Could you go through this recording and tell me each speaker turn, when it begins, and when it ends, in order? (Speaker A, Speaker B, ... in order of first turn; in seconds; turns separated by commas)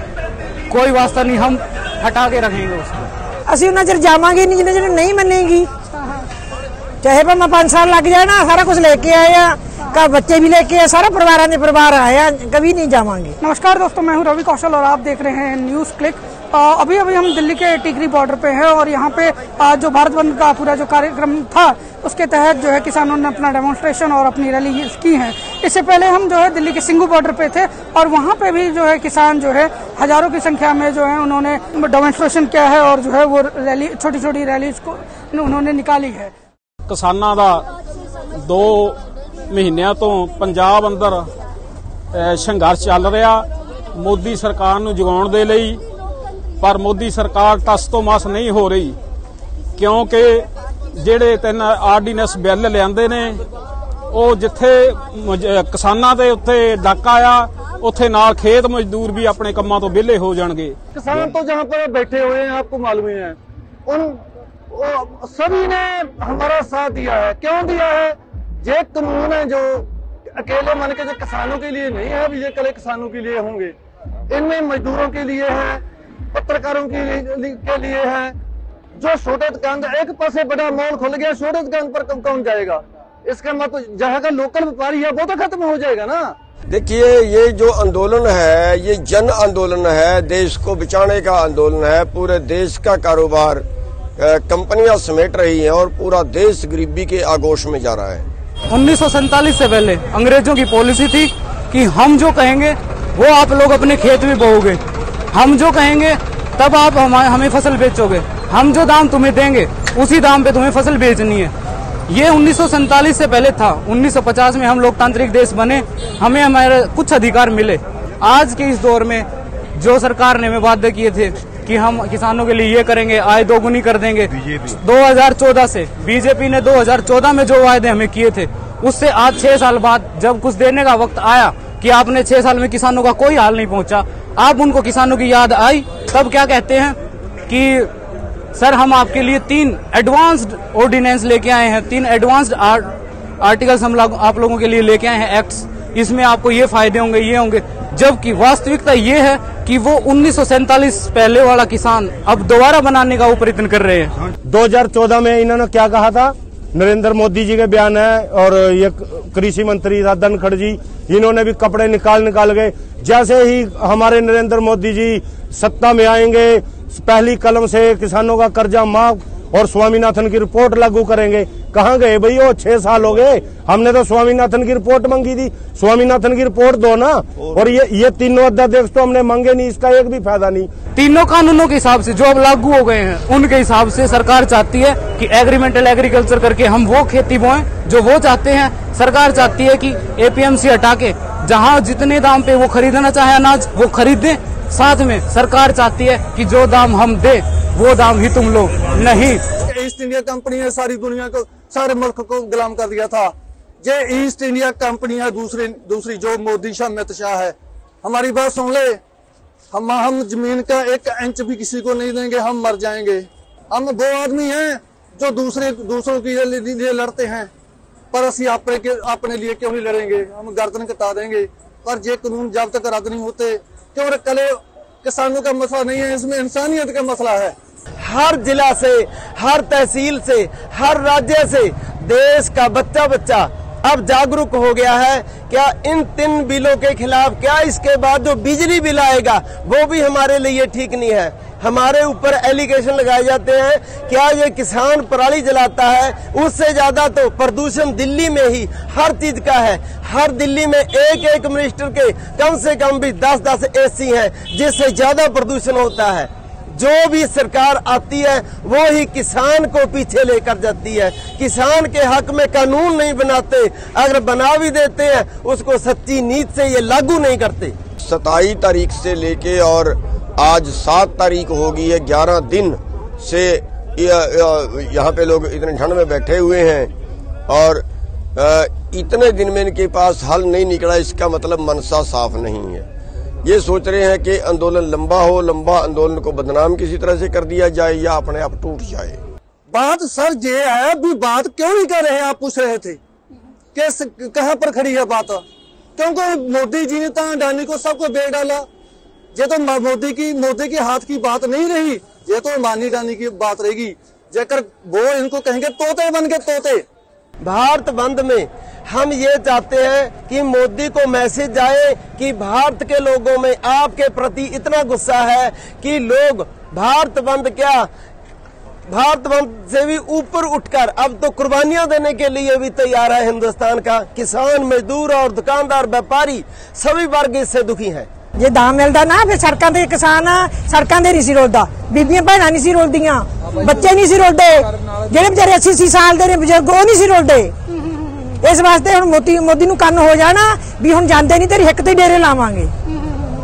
Speaker A: 0.7-3.0, Speaker B: 3.5-5.7, Speaker B: 7.0-13.3, Speaker C: 13.4-36.3, Speaker D: 36.9-37.7, Speaker D: 38.4-39.0, Speaker D: 39.5-41.3, Speaker D: 42.1-45.8, Speaker D: 46.6-49.0, Speaker D: 49.8-53.4, Speaker D: 54.1-60.8, Speaker E: 60.9-64.2, Speaker E: 64.7-73.7, Speaker E: 74.3-75.8, Speaker E: 76.3-78.4, Speaker E: 79.0-86.3, Speaker F: 86.7-93.6, Speaker F: 94.2-98.2, Speaker A: 98.7-104.8, Speaker A: 105.3-111.5, Speaker A: 112.1-137.9, Speaker A: 138.5-154.1, Speaker G: 154.4-180.7, Speaker A: 180.9-199.4, Speaker E: 199.6-209.0, Speaker E: 209.7-217.5, Speaker E: 218.1-227.6, Speaker H: 228.0-267.8, Speaker F: 268.0-276.9, Speaker F: 277.5-277.8, Speaker F: 278.4-282.9, Speaker F: 283.4-289.2, Speaker E: 289.7-293.0, Speaker E: 293.7-295.4, Speaker E: 296.0-298.7, Speaker E: 299.3-306.8, Speaker H: 307.4-317.9, Speaker H: 318.9-328.1, Speaker B: 328.4-337.5, Speaker B: 338.4-342.7